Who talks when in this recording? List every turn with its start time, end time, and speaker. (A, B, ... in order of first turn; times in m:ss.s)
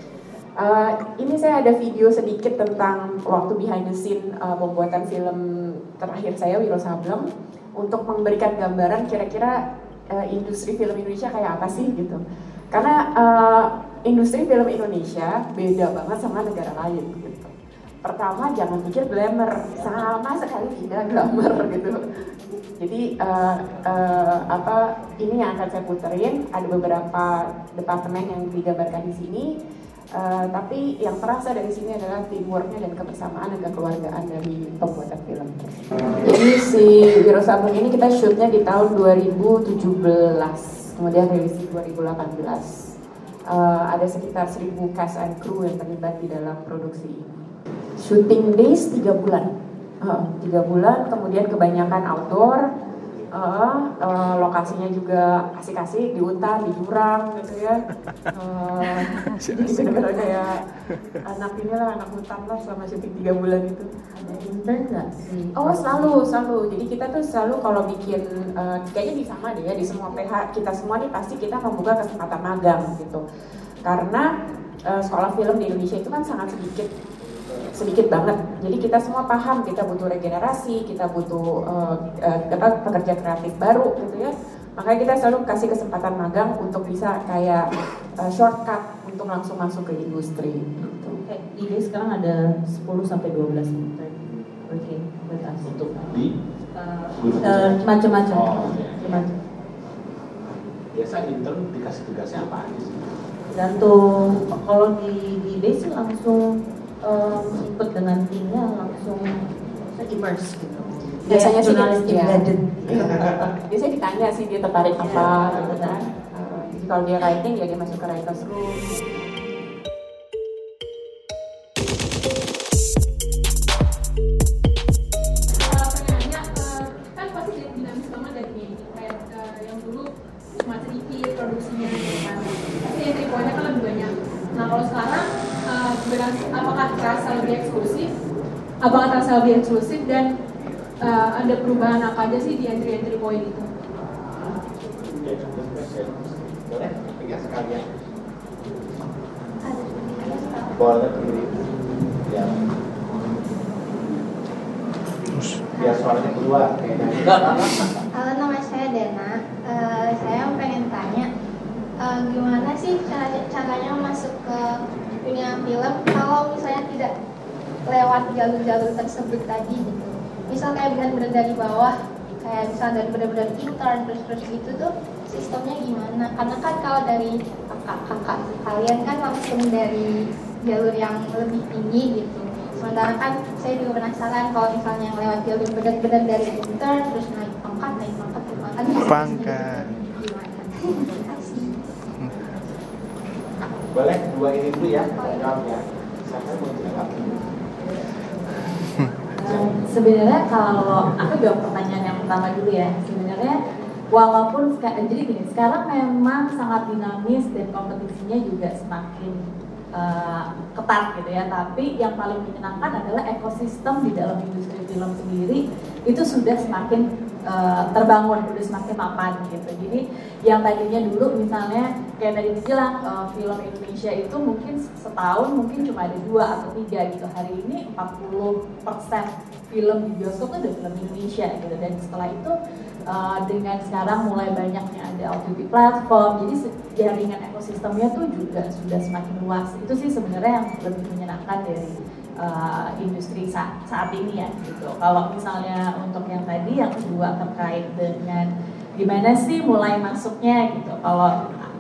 0:00.6-0:05.4 A
0:06.0-0:07.2 A
0:07.8-0:09.6 A
0:10.1-0:12.2 A
0:12.7-0:17.5 A
0:18.0-0:22.0 A
0:22.8-0:29.5 A
0:30.1-0:42.7 A
0:43.5-0:47.5 A
0:48.0-0:49.5 A
0:50.0-0:52.6 A
0:53.3-0:57.8 A
0:58.3-1:00.6 A
1:01.2-1:03.9 A
1:04.1-1:06.2 B
1:05.6-1:13.2 A
1:13.8-1:14.3 A
1:14.9-1:16.9 A
1:17.7-1:27.6 A
1:28.2-1:31.2 A
1:31.2-1:34.1 B
1:34.7-1:36.1 B
1:36.1-1:36.3 C
1:37.1-1:39.2 C
1:37.4-1:39.3 B
1:40.9-1:43.0 C
1:43.5-1:46.4 B
1:47.0-1:49.4 B
1:49.9-1:53.5 B
1:51.2-1:52.4 A
1:53.7-1:58.8 A
1:54.9-1:56.0 B
2:05.5-2:10.1 D
2:10.6-2:18.1 D
2:18.8-2:20.3 D
2:21.0-2:23.6 D
2:25.2-2:27.8 C
2:29.6-2:30.8 E
2:30.7-2:31.6 C
2:32.3-2:32.6 C
2:35.8-2:36.1 E
2:35.8-2:37.9 C
2:38.1-2:41.3 E
2:42.0-2:47.1 E
2:47.9-3:00.1 E
3:00.6-3:11.7 E
3:13.9-3:17.4 C
3:19.4-3:23.6 F
3:19.4-3:19.8 C
3:24.1-3:29.4 F
3:30.0-3:52.5 F
3:53.1-4:08.5 F
4:09.0-4:11.3 F